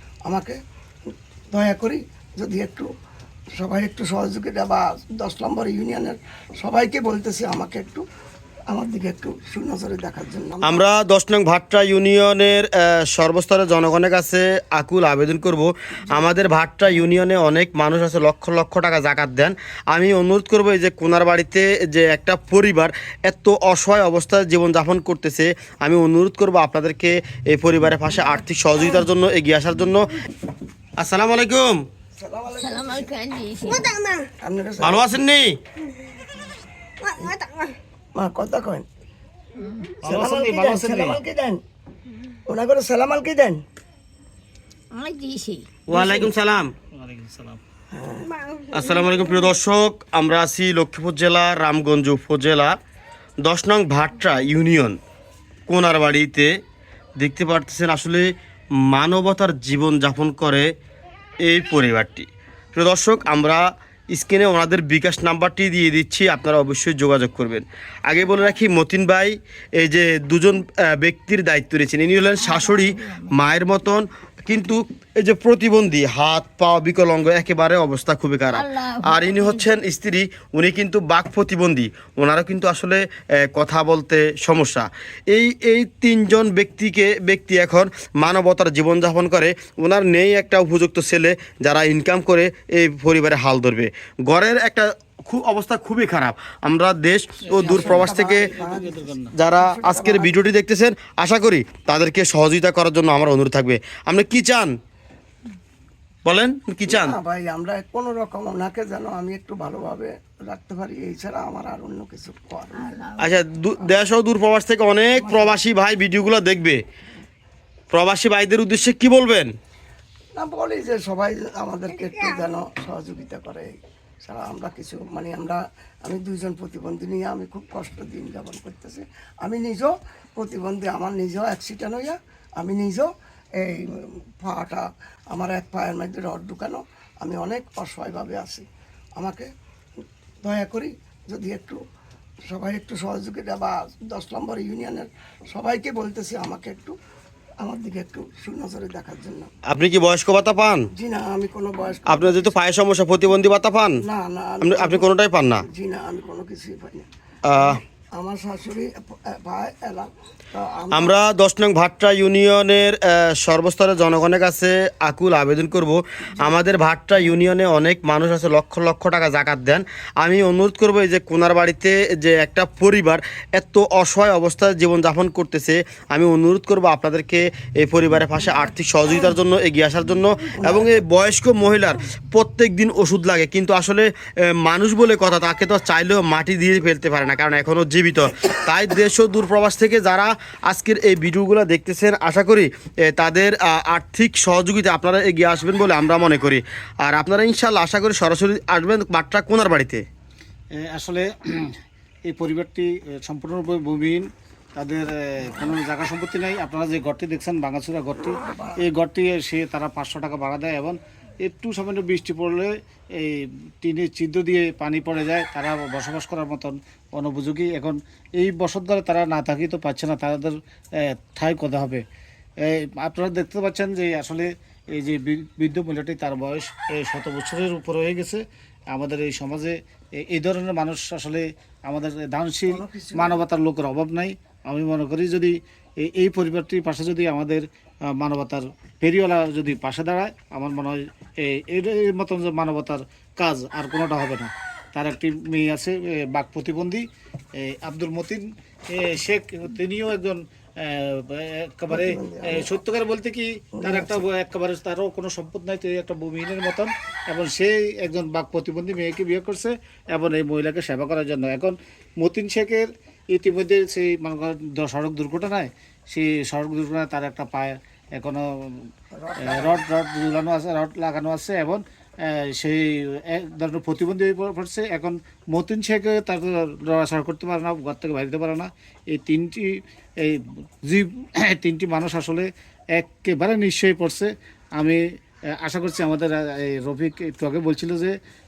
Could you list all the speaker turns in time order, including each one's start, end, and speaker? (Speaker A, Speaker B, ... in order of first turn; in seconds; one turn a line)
Speaker A: 0.2-0.6
Speaker A: 1.5-2.9
Speaker A: 3.6-8.0
Speaker A: 8.7-10.8
Speaker B: 10.6-30.1
Speaker B: 31.0-31.7
Speaker A: 32.2-33.1
Speaker C: 32.6-34.2
Speaker A: 34.4-35.0
Speaker B: 34.8-35.6
Speaker C: 37.3-37.6
Speaker A: 38.1-38.9
Speaker D: 40.0-41.2
Speaker A: 40.0-41.6
Speaker A: 42.5-43.6
Speaker C: 44.9-45.8
Speaker B: 45.9-46.7
Speaker D: 45.9-46.3
Speaker D: 46.9-47.6
Speaker A: 47.9-48.3
Speaker B: 48.7-52.7
Speaker B: 53.4-55.0
Speaker B: 55.7-56.5
Speaker B: 57.2-58.3
Speaker B: 58.9-60.7
Speaker B: 61.4-98.5
Speaker C: 78.5-79.7
Speaker D: 97.5-99.3
Speaker A: 97.6-100.3
Speaker B: 99.3-104.7
Speaker B: 106.2-107.2
Speaker A: 106.9-113.1
Speaker C: 112.8-113.3
Speaker B: 113.2-116.8
Speaker A: 115.2-115.6
Speaker B: 117.9-119.5
Speaker A: 120.3-123.7
Speaker A: 124.2-138.6
Speaker A: 139.2-139.5
Speaker A: 140.4-141.8
Speaker A: 142.5-146.9
Speaker A: 147.6-149.5
Speaker B: 149.7-150.9
Speaker A: 150.9-152.5
Speaker B: 152.1-154.0
Speaker A: 154.0-155.1
Speaker B: 154.6-155.7
Speaker A: 155.7-161.1
Speaker B: 157.5-157.8
Speaker B: 160.9-200.0
Speaker A: 180.6-181.0
Speaker D: 200.8-201.8
Speaker D: 202.3-204.2
Speaker D: 204.8-222.0
Speaker A: 208.5-208.8
Speaker D: 222.6-237.6
Speaker A: 232.7-233.4
Speaker D: 238.1-247.0
Speaker D: 247.6-268.9
Speaker A: 251.9-252.7
Speaker A: 253.8-254.2
Speaker A: 269.1-269.8
Speaker D: 269.4-285.0
Speaker D: 285.6-288.1